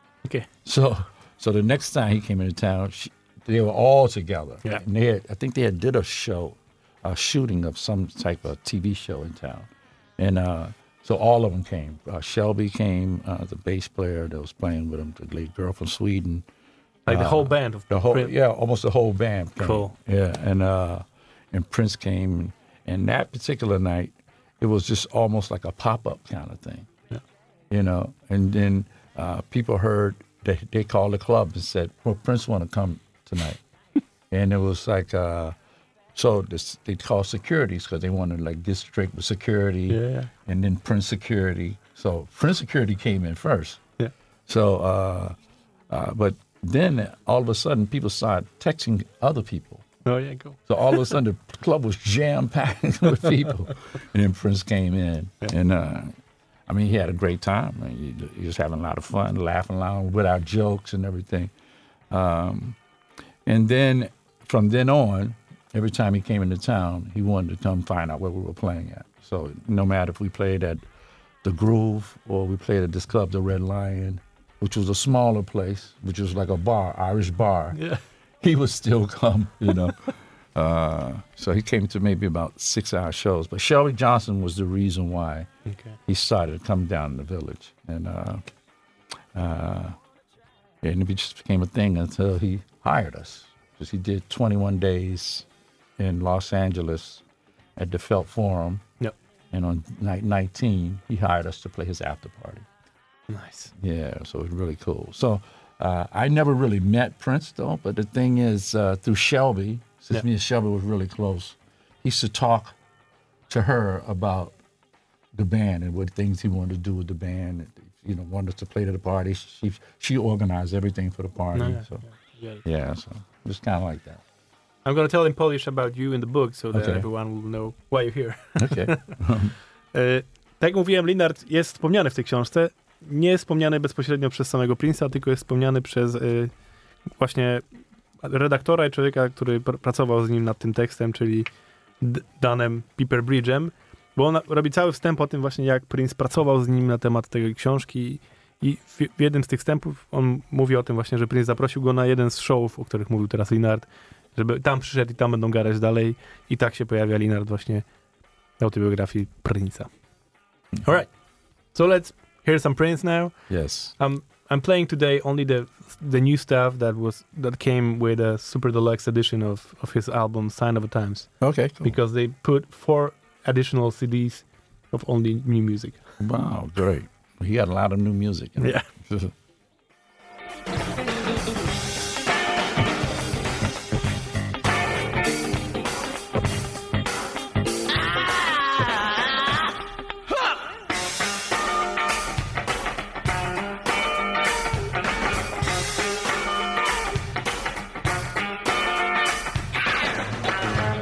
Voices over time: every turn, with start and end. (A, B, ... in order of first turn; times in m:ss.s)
0:00.6-0:16.4 A
0:17.1-0:18.3 B
0:17.1-0:26.9 A
0:19.6-0:19.9 B
0:27.7-0:33.6 A
0:34.3-0:35.5 A
0:36.1-0:43.8 A
0:39.9-0:40.3 B
0:44.5-0:45.3 A
0:45.9-0:49.9 A
0:50.0-0:51.2 B
0:50.7-0:56.1 A
0:56.7-1:01.5 A
1:02.1-1:02.8 A
1:03.4-1:10.8 A
1:11.4-1:17.8 A
1:17.7-1:18.0 B
1:18.4-1:25.5 A
1:25.7-1:26.0 B
1:26.0-1:28.4 A
1:29.3-1:30.0 A
1:30.8-1:35.5 A
1:36.0-1:37.2 A
1:37.8-1:38.8 A
1:39.5-1:42.7 A
1:43.3-1:43.7 B
1:43.7-1:52.8 A
1:53.5-1:54.6 A
1:55.3-2:02.0 A
2:01.5-2:02.6 B
2:02.6-2:04.2 A
2:04.8-2:09.1 B
2:06.7-2:07.1 A
2:08.6-2:09.6 A
2:09.9-2:16.5 B
2:17.1-2:17.6 B
2:18.2-2:21.5 B
2:22.0-2:37.8 B
2:38.6-2:39.9 B
2:40.8-2:41.1 B
2:41.7-2:43.3 B
2:43.5-2:43.9 A
2:44.0-2:51.3 B
2:51.4-2:52.0 A
2:51.8-2:56.0 B
2:56.2-2:59.3 A
2:58.6-2:58.9 B